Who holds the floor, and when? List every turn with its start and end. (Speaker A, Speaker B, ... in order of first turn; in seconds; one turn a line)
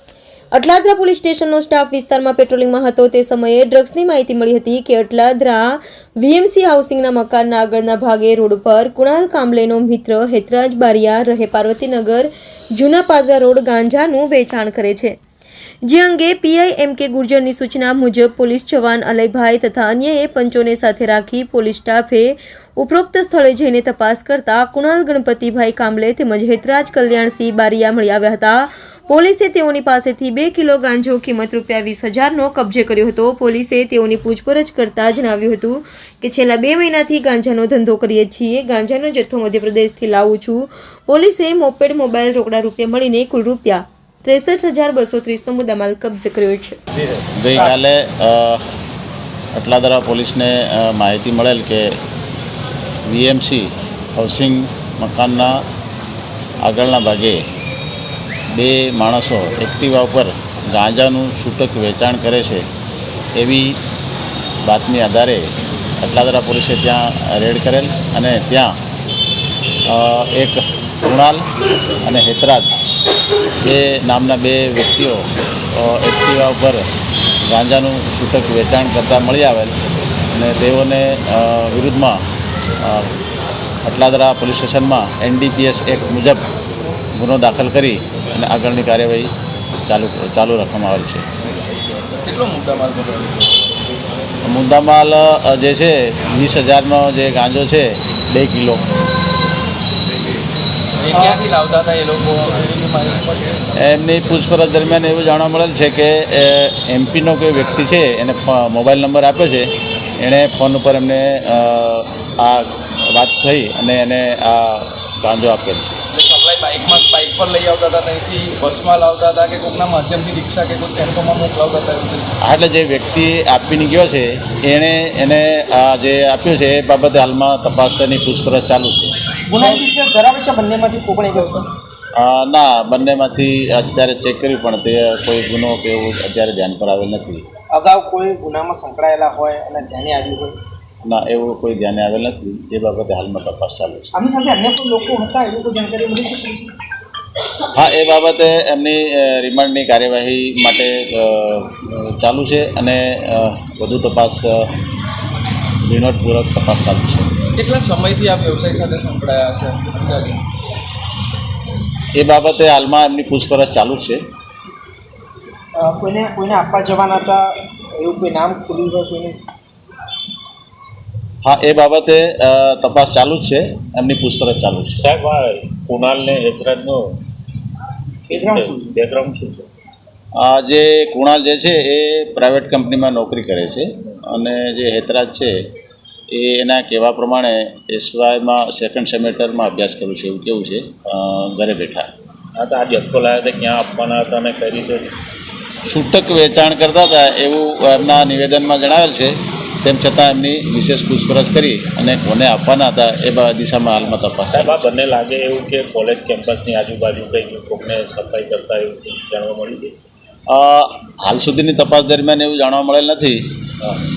Speaker A: 0.5-15.1
Speaker A: 15.8-46.8
Speaker B: 47.2-48.6
Speaker B: 49.5-51.9
Speaker B: 53.0-55.6
Speaker B: 56.6-57.4
Speaker B: 58.5-62.7
Speaker B: 63.3-63.8
Speaker B: 64.6-68.8
Speaker B: 69.8-71.5
Speaker B: 72.0-72.7
Speaker B: 73.6-76.8
Speaker B: 77.4-79.7
Speaker B: 80.3-82.2
Speaker B: 82.8-83.1
Speaker B: 83.8-86.4
Speaker B: 87.1-89.3
Speaker B: 89.9-91.5
Speaker C: 92.2-93.7
Speaker B: 94.4-98.9
Speaker C: 101.0-103.7
Speaker B: 103.8-116.0
Speaker C: 116.1-122.3
Speaker B: 122.4-129.2
Speaker D: 129.5-131.7
Speaker B: 132.1-137.4
Speaker D: 137.7-140.6
Speaker B: 141.0-144.1
Speaker D: 144.1-146.7
Speaker B: 147.7-154.7
Speaker B: 155.8-157.3
Speaker C: 157.6-160.4
Speaker B: 162.1-164.2
Speaker D: 165.7-169.4
Speaker B: 171.4-175.0
Speaker E: 175.0-177.0
Speaker D: 178.3-178.9
Speaker E: 178.3-179.7
Speaker B: 180.3-185.6
Speaker B: 186.3-192.1
Speaker E: 192.6-195.1
Speaker B: 195.8-204.9
Speaker E: 204.5-209.9
Speaker B: 210.5-213.4